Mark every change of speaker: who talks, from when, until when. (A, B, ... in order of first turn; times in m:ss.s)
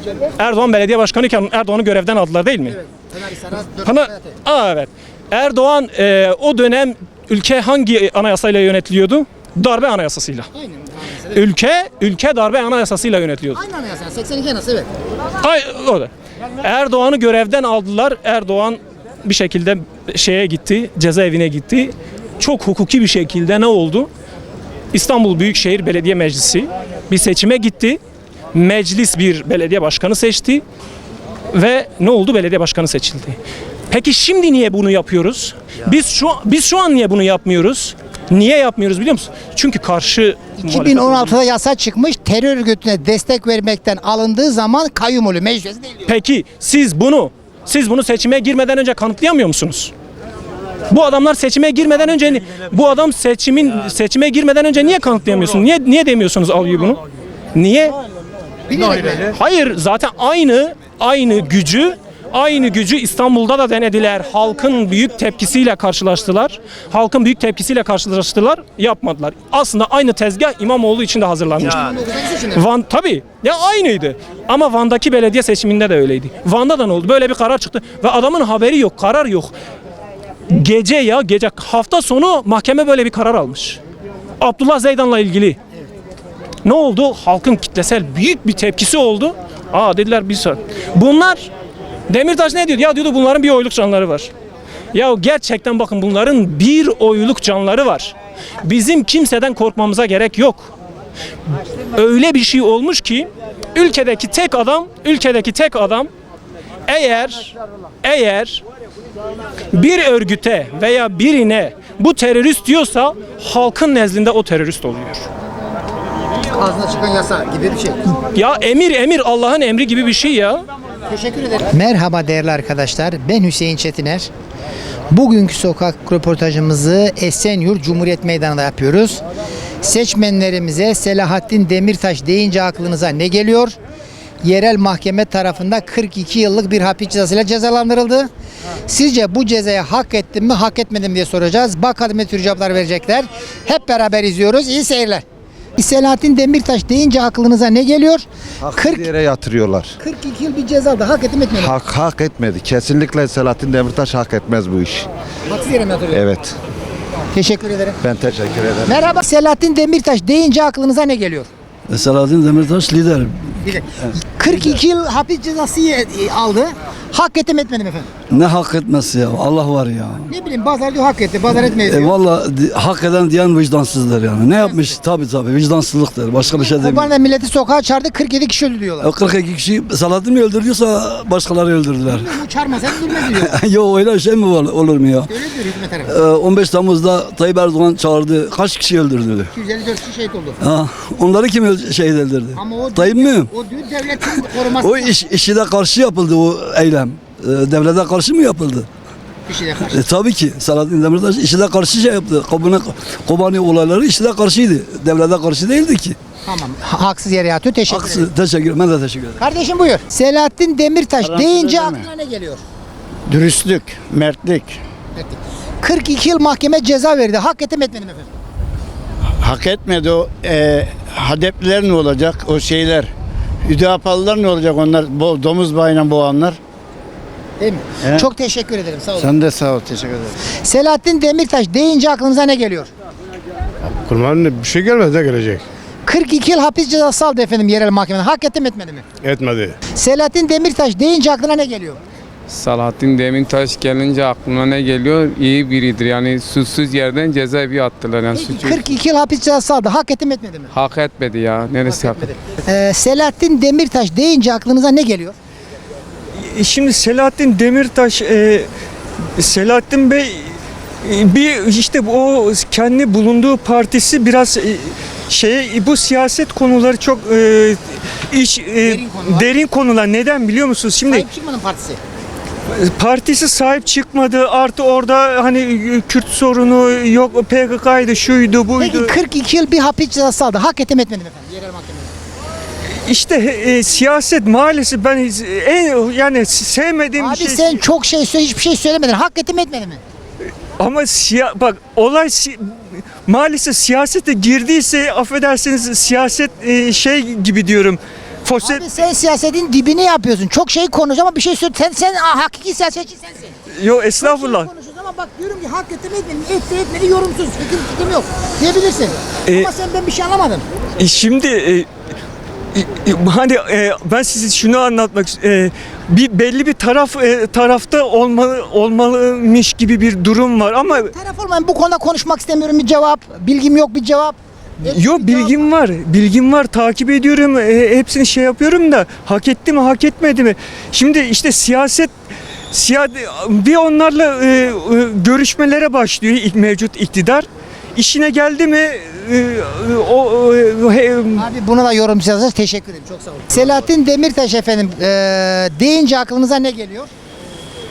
0:00.4-0:02.8 A
0:03.0-0:04.3 B
0:03.8-0:10.5 A
0:10.5-0:11.4 B
0:11.3-0:13.6 A
0:13.5-0:14.9 B
0:15.4-0:16.1 A
0:16.6-0:24.1 A
0:24.9-0:28.0 A
0:28.5-0:30.6 A
0:31.5-0:33.4 A
0:33.9-0:41.4 A
0:40.6-0:46.0 B
0:46.1-0:49.9 A
0:50.9-0:57.0 A
0:57.5-0:57.9 A
0:58.7-0:59.3 B
0:59.3-1:11.8 A
1:11.6-1:12.6 B
1:12.5-1:19.5 A
1:20.5-1:23.8 A
1:24.4-1:25.6 A
1:26.6-1:31.5 A
1:32.1-1:34.3 A
1:34.9-1:40.7 A
1:41.9-1:46.1 A
1:46.9-1:47.5 A
1:48.0-1:48.6 A
1:49.7-1:55.3 A
1:56.6-1:58.0 B
1:58.3-2:00.6 A
2:01.1-2:04.3 B
2:05.1-2:09.2 B
2:09.8-2:13.7 B
2:14.4-2:18.3 B
2:18.9-2:25.2 B
2:25.8-2:29.1 B
2:28.6-2:29.9 C
2:30.0-2:31.8 B
2:31.6-2:35.0 C
2:35.5-2:36.3 B
2:36.1-2:36.4 C
2:37.3-2:38.0 B
2:38.0-2:38.9 C
2:38.8-2:41.5 B
2:41.9-2:43.6 D
2:44.4-2:48.1 B
2:48.3-2:50.3 D
2:50.3-2:52.1 B
2:51.8-2:57.1 D
2:54.6-2:54.8 B
2:56.6-2:59.1 B
2:59.0-3:02.4 D
3:02.1-3:03.6 B
3:02.9-3:05.3 D
3:05.2-3:06.2 B
3:06.0-3:09.5 D
3:09.5-3:10.6 B
3:10.6-3:13.5 D
3:12.5-3:15.1 B
3:14.3-3:18.9 D
3:19.5-3:20.0 B
3:19.9-3:26.2 D
3:26.4-3:28.3 B
3:27.9-3:29.4 D
3:29.4-3:32.6 B
3:31.2-3:32.0 E
3:33.3-3:34.8 E
3:35.2-3:38.3 B
3:39.4-3:43.1 E
3:43.6-3:46.6 E
3:47.6-3:49.3 B
3:49.2-3:50.2 E
3:50.6-3:52.9 B
3:54.0-3:55.6 F
3:56.0-3:59.0 B
3:59.2-3:59.7 F
4:00.0-4:02.0 B
4:02.5-4:08.9 G
4:08.3-4:10.7 B
4:10.7-4:12.3 G
4:11.8-4:15.4 B
4:16.4-4:18.7 H
4:19.4-4:31.2 H
4:28.8-4:29.5 B
4:31.1-4:32.0 B
4:32.7-4:39.1 H
4:38.8-4:42.1 B
4:43.0-4:47.8 H
4:47.2-4:50.0 B
4:50.8-4:58.8 H
4:58.6-5:03.6 B
5:03.8-5:04.7 H
5:04.2-5:10.6 B
5:11.0-5:11.9 H
5:12.7-5:21.1 H
5:21.1-5:25.6 B
5:24.8-5:32.1 H
5:32.7-5:41.4 H
5:41.3-5:47.1 B